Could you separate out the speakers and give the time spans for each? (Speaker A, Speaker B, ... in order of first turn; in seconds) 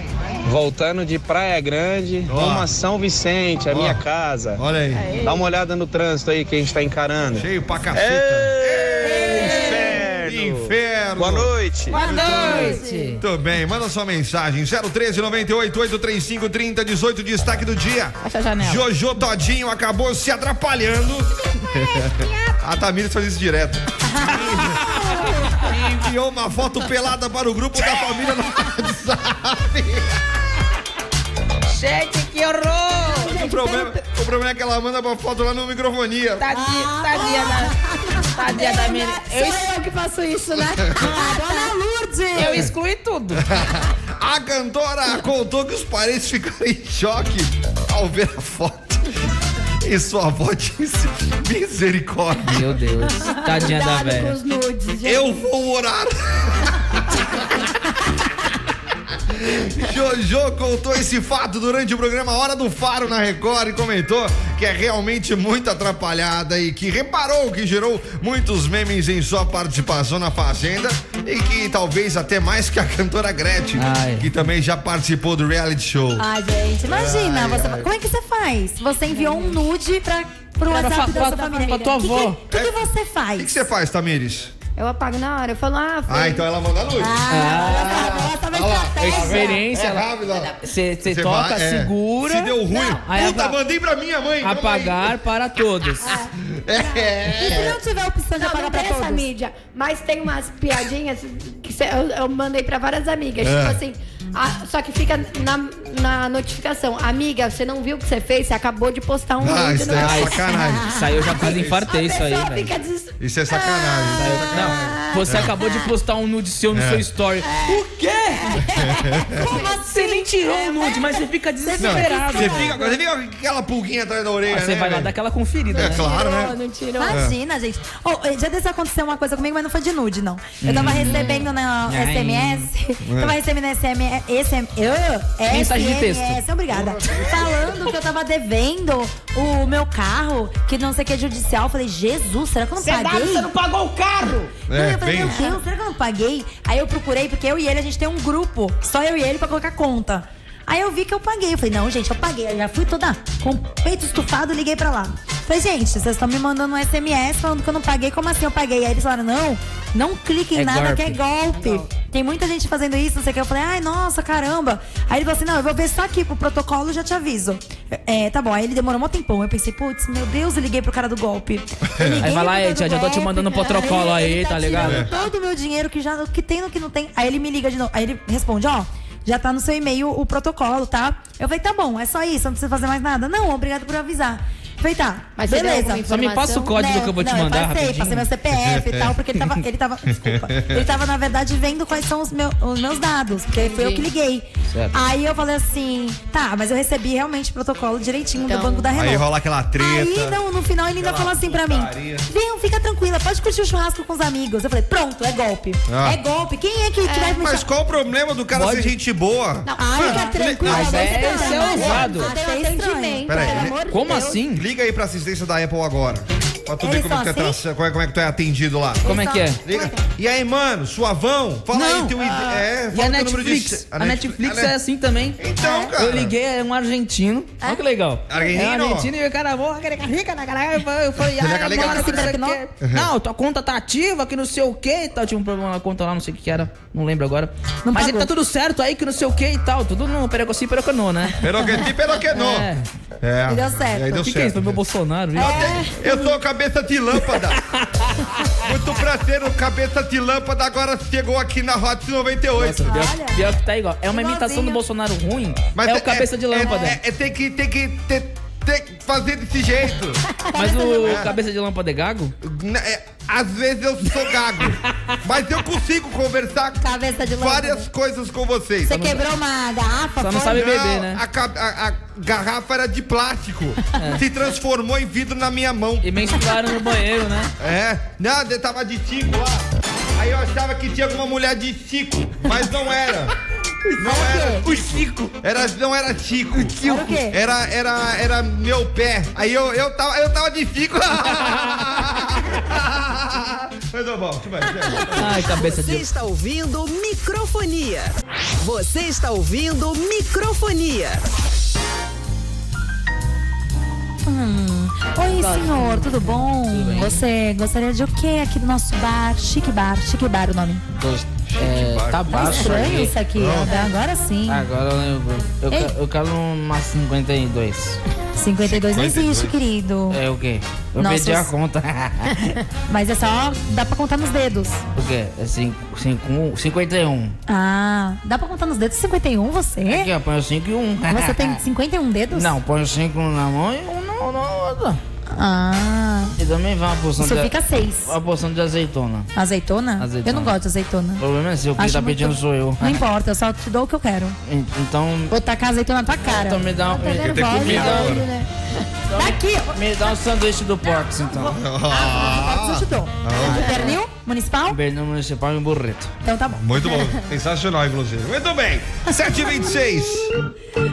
Speaker A: 0.4-4.6, 5.2-12.0
Speaker B: 2.3-2.7, 3.7-4.0, 4.5-5.1, 7.3-25.0, 25.6-30.2, 33.2-36.4, 40.8-41.1, 43.4-49.1, 49.8-52.7, 55.0-57.2, 59.3-76.2, 76.8-77.9, 82.5-82.8, 83.3-84.5, 86.1-95.1, 96.5-97.7, 103.4-103.8, 109.4-111.9, 113.2-115.5, 116.7-117.0, 118.7-119.5, 121.8-125.1, 125.7-126.5, 127.1-127.3, 133.0-133.3, 144.7-145.4, 171.8-172.2, 174.8-175.1, 188.5-189.2, 190.1-190.9, 198.9-200.4, 201.0-202.3, 205.9-206.2, 207.4-211.2, 213.2-213.7, 214.5-224.7, 225.4-226.3, 228.3-229.1, 231.2-233.1, 241.4-244.8, 245.4-247.6, 248.6-252.9, 255.7-260.2, 261.0-261.3, 262.4-269.1, 270.5-276.2, 277.6-283.3, 284.0-295.5, 311.5-313.7, 318.6-319.6, 347.2-348.3, 351.5-353.8, 356.6-360.3
Speaker C: 9.1-9.9, 11.9-13.2, 24.1-24.4, 36.5-39.5, 41.0-42.7, 76.2-83.5, 87.0-89.6, 97.4-99.2, 110.5-111.1, 114.5-115.9, 119.3-121.0, 121.7-122.9, 127.0-143.5, 144.7-186.0, 186.7-207.6, 209.8-213.8, 216.8-217.6, 219.0-220.0, 225.6-225.9, 231.6-232.7, 237.8-238.3, 243.5-244.2, 245.4-246.3, 252.8-253.4, 254.1-254.8, 260.8-261.2, 266.8-267.9, 268.9-270.7, 284.0-284.7, 286.8-287.4, 304.2-310.8, 312.3-314.6, 318.4-320.2, 321.0-321.5, 322.9-324.8, 327.5-330.1, 331.1-332.6, 335.3-336.3, 337.2-338.1, 339.3-341.2, 341.8-344.4, 345.3-348.2, 349.1-350.2, 351.0-354.8, 356.2-357.1
Speaker D: 9.1-10.0, 11.9-13.2, 18.3-18.8, 24.3-25.8, 31.7-33.3, 36.4-39.6, 42.3-43.5, 52.4-54.4, 73.8-74.3, 80.7-82.4, 87.3-88.2, 89.0-90.1, 90.6-93.6, 94.4-96.2, 110.0-112.7, 114.2-118.7, 119.6-122.8, 124.5-126.0, 130.6-132.7, 135.5-136.4, 142.8-144.3, 160.5-161.8, 172.2-175.1, 186.0-188.3, 194.7-195.0, 208.5-208.9, 210.7-212.3, 213.9-214.6, 219.1-219.6, 221.7-222.2, 222.9-225.4, 226.0-241.5, 242.3-242.8, 244.1-245.8, 247.6-248.5, 252.6-257.0, 260.5-262.3, 264.8-265.2, 270.2-271.2, 274.0-274.2, 276.0-277.5, 284.6-285.3, 291.3-291.9, 295.1-296.0, 306.7-307.2, 310.9-313.1, 314.5-318.0, 320.1-322.6, 324.9-327.4, 329.9-331.6, 332.3-335.0, 336.4-337.5, 338.0-339.3, 340.0-340.5, 341.2-343.0, 344.4-345.4, 346.2-348.1, 349.1-351.6, 353.4-353.9, 354.7-356.1
Speaker E: 33.2-34.0, 39.2-41.7, 53.2-55.2, 79.1-79.6, 80.8-82.0, 84.8-86.5, 96.8-97.1, 98.4-110.5, 111.9-114.2, 119.5-119.8, 120.4-121.0, 125.7-127.2, 145.2-145.6, 185.3-186.7, 193.5-194.1, 198.4-198.9, 207.0-207.5, 209.7-210.5, 211.2-214.4, 305.3-306.0, 346.9-348.8
Speaker F: 295.5-301.2